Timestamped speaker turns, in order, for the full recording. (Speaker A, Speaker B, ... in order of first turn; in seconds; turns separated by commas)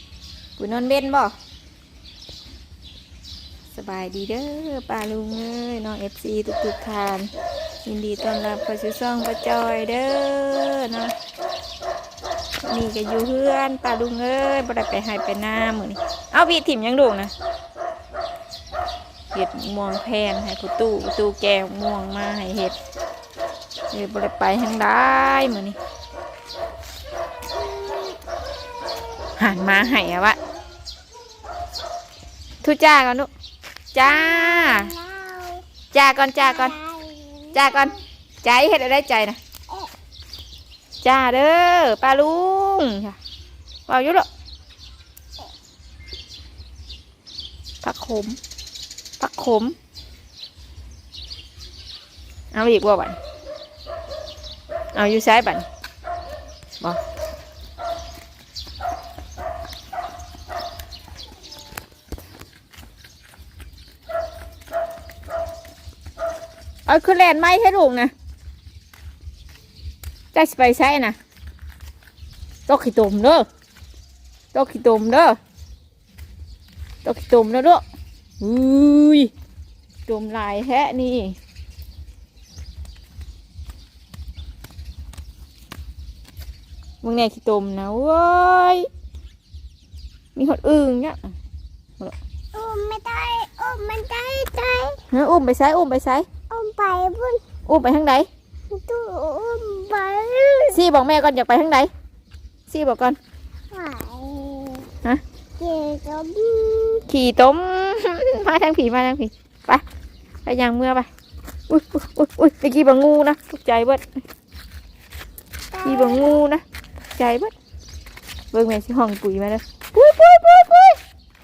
Speaker A: 0.6-1.3, Speaker A: 3.7-7.3, Speaker A: 7.8-11.1, Speaker A: 12.6-17.3, Speaker A: 19.3-22.8, Speaker A: 23.9-25.8, Speaker B: 27.5-28.1, Speaker A: 29.4-30.4, Speaker A: 32.6-33.3, Speaker A: 33.9-34.9, Speaker B: 34.1-35.6, Speaker A: 35.9-36.8, Speaker B: 36.5-37.9, Speaker A: 37.5-39.4, Speaker A: 41.0-43.2, Speaker A: 43.9-44.3, Speaker A: 47.8-48.4, Speaker A: 49.2-49.8, Speaker A: 52.5-53.2, Speaker A: 54.9-55.7, Speaker A: 66.8-68.1, Speaker A: 70.3-71.2, Speaker A: 72.7-73.5, Speaker A: 74.5-75.4, Speaker A: 77.0-77.8, Speaker A: 78.4-79.3, Speaker A: 80.1-81.4, Speaker A: 87.0-88.9, Speaker A: 90.3-91.3, Speaker B: 92.5-95.0, Speaker A: 95.1-96.3, Speaker B: 96.5-97.4, Speaker A: 97.7-98.3, Speaker B: 98.7-100.8, Speaker A: 100.7-101.9, Speaker A: 102.7-103.2, Speaker B: 103.7-104.9, Speaker B: 105.6-107.0, Speaker A: 107.1-109.8, Speaker A: 110.4-111.1, Speaker A: 111.7-114.0, Speaker B: 115.7-116.4, Speaker A: 115.8-116.6, Speaker A: 117.1-117.5, Speaker A: 118.5-121.0